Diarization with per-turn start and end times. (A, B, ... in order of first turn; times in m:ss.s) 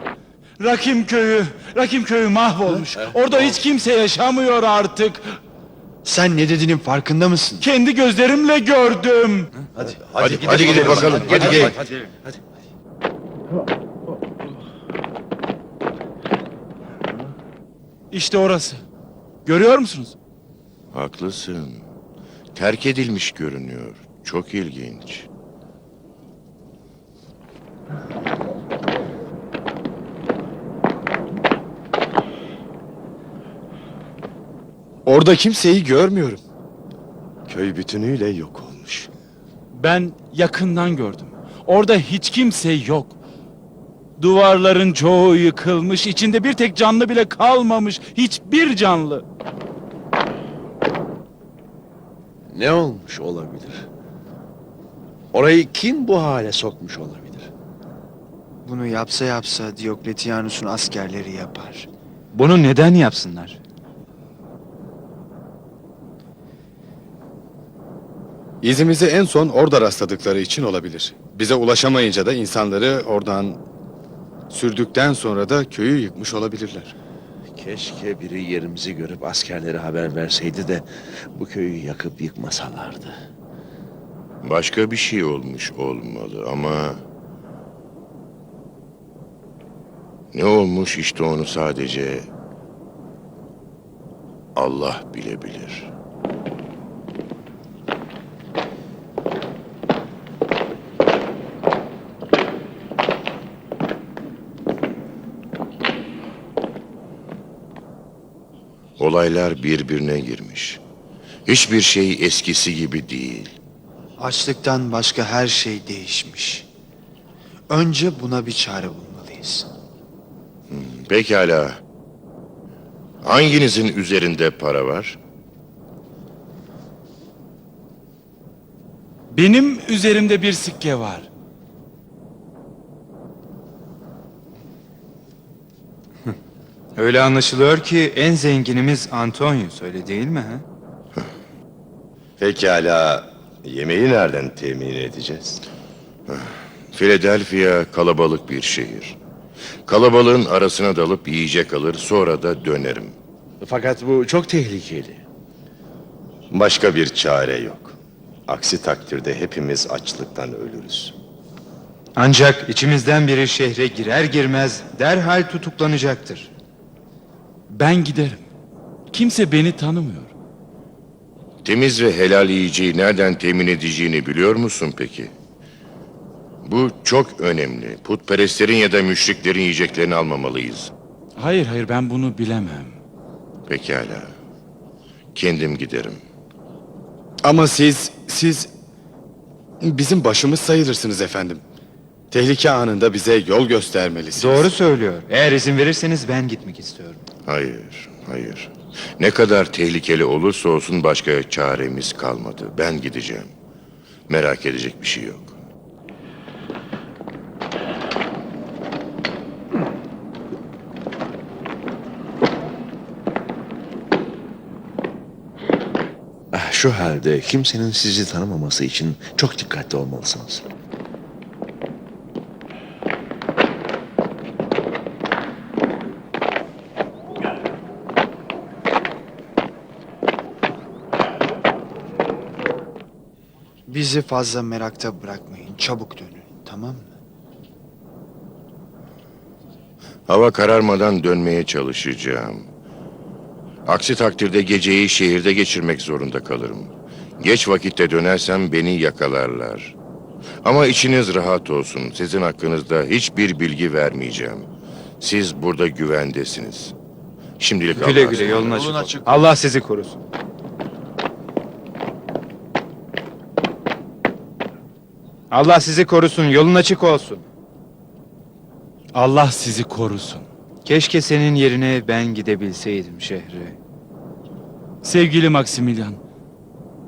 0:00.6-0:05.4 A
0:02.9-0:03.5 B
0:06.0-0:07.7 C
0:07.6-0:09.7 A
0:09.8-0:12.4 B
0:10.2-0:11.4 D
0:10.4-0:11.7 C
0:10.5-0:11.8 A
0:18.1-0:18.8 A
0:19.4-0:20.2 A
0:20.9-0:21.8 D
0:22.5-0:25.3 D
0:35.1-0:36.4 E
0:37.5-0:39.1 F
0:39.7-0:43.2 A
0:44.2-0:49.2 A
0:52.5-0:53.9 B
0:55.3-0:57.5 B
0:58.6-1:01.9 C
1:02.3-1:03.6 G
1:08.6-1:13.6 E
1:14.5-1:17.0 E
1:17.6-1:23.2 B
1:24.4-1:27.0 D
1:30.3-1:32.3 D
1:34.6-1:35.9 D
1:49.0-1:50.8 D
1:51.5-1:53.6 D
1:54.2-1:56.7 C
1:57.7-1:59.7 C
2:00.7-2:01.8 D
2:03.2-2:05.2 D
2:09.3-2:11.3 A
2:17.0-2:20.6 G
2:22.4-2:25.6 F
2:26.3-2:29.2 D
2:29.9-2:33.2 D
2:33.6-2:35.2 B
2:36.5-2:38.0 F
2:38.5-2:41.2 F
2:42.2-2:46.5 G
2:47.7-2:48.4 A
2:49.1-2:50.3 A
2:51.6-2:55.3 D
2:56.6-3:00.9 D
3:01.4-3:03.0 A
3:03.7-3:04.4 D
3:05.4-3:06.2 D
3:07.4-3:08.7 E
3:09.8-3:11.6 E
3:12.3-3:14.7 E
3:14.4-3:17.2 G
3:17.5-3:23.5 D
3:24.3-3:25.6 D
3:36.5-3:40.7 B
3:53.9-3:57.1 C
4:00.3-4:02.7 D
4:03.9-4:10.0 D
4:10.6-4:14.7 D
4:15.2-4:17.0 D
4:17.6-4:19.1 D
4:18.0-4:20.2 G
4:25.5-4:27.5 G
4:29.1-4:30.5 A
4:30.8-4:33.8 G
4:35.0-4:36.2 A